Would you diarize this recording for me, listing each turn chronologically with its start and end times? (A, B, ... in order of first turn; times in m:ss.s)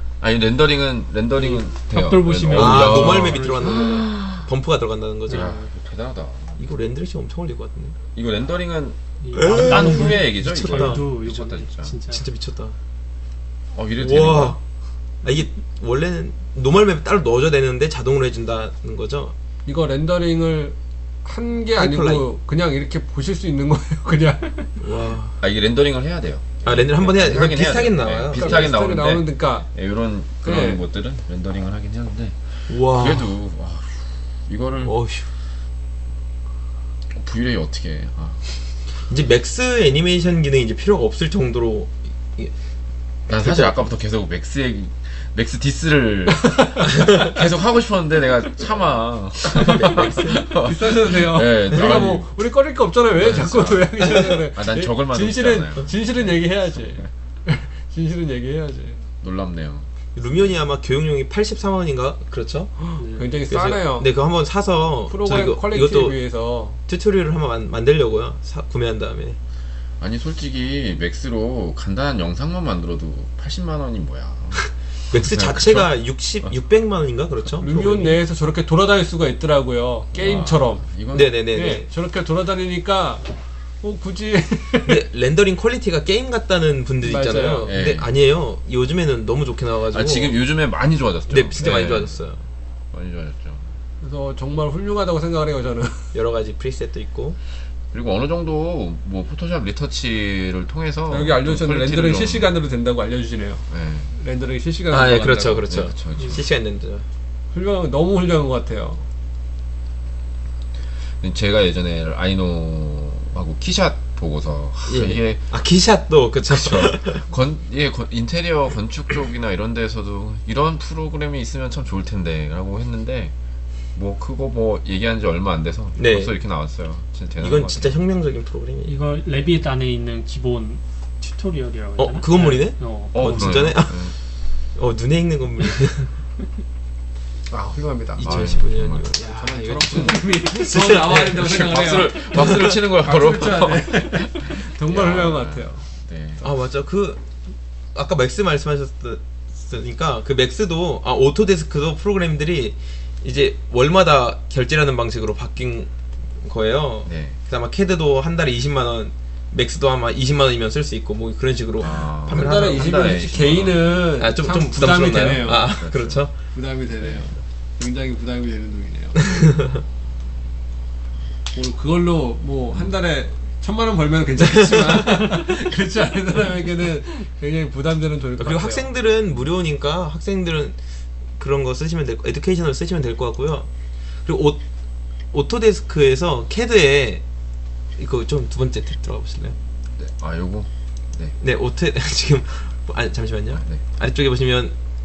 0:00.2-0:04.5 A
0:01.4-0:04.0 B
0:02.5-0:05.5 C
0:05.3-0:05.6 B
0:05.3-0:06.6 A
0:06.6-0:08.0 C
0:08.2-0:12.0 A
0:09.2-0:12.2 B
0:09.3-0:11.0 C
0:12.1-0:12.8 C
0:13.7-0:14.6 A
0:14.0-0:14.6 C
0:15.2-0:19.3 C
0:19.7-0:24.8 D
0:21.8-0:22.3 C
0:24.8-0:25.4 C
0:25.4-0:35.0 A
0:26.6-0:28.7 C
0:28.3-0:29.7 D
0:30.4-0:30.8 D
0:32.7-0:33.3 C
0:34.8-0:35.3 C
0:37.1-0:38.5 A
0:39.1-0:42.5 C
0:43.3-0:52.3 A
0:43.3-0:43.8 C
0:46.3-0:46.8 D
0:47.1-0:47.3 C
0:49.5-0:50.5 C
0:50.6-0:59.0 D
0:53.1-0:56.3 A
0:59.2-0:59.9 A
1:00.2-1:06.2 C
1:03.0-1:03.3 B
1:03.2-1:04.1 D
1:05.1-1:06.8 D
1:06.9-1:09.4 C
1:10.0-1:15.9 A
1:15.1-1:18.2 C
1:17.6-1:20.8 D
1:20.1-1:21.4 A
1:21.1-1:21.9 C
1:21.5-1:25.0 D
1:24.9-1:30.3 C
1:27.0-1:27.7 D
1:27.7-1:28.1 A
1:29.9-1:32.2 A
1:31.3-1:32.4 C
1:32.9-1:33.7 A
1:34.0-1:36.2 D
1:36.1-1:37.4 C
1:37.9-1:42.6 A
1:41.1-1:45.7 D
1:43.7-1:44.1 A
1:44.9-1:47.0 C
1:45.6-1:46.4 A
1:47.5-1:49.0 D
1:51.2-1:55.4 A
1:54.9-1:57.2 C
1:56.5-2:03.3 A
2:04.0-2:08.0 A
2:06.0-2:06.3 C
2:07.4-2:08.9 C
2:08.9-2:13.6 B
2:12.0-2:14.1 C
2:13.1-2:14.2 A
2:14.7-2:16.1 C
2:17.5-2:18.6 D
2:18.2-2:22.8 C
2:18.2-2:26.4 A
2:19.9-2:25.8 D
2:26.4-2:27.2 C
2:28.0-2:43.3 C
2:37.1-2:37.4 A
2:41.8-2:44.0 A
2:42.3-2:45.7 D
2:44.2-2:46.3 C
2:45.1-2:46.2 A
2:46.5-2:49.4 D
2:49.2-2:49.8 C
2:51.5-2:58.9 D
2:54.7-2:55.2 C
2:58.4-3:00.8 C
3:01.4-3:03.7 C
3:04.2-3:04.6 C
3:05.3-3:07.2 C
3:08.0-3:09.6 C
3:09.9-3:11.4 A
3:11.4-3:14.8 C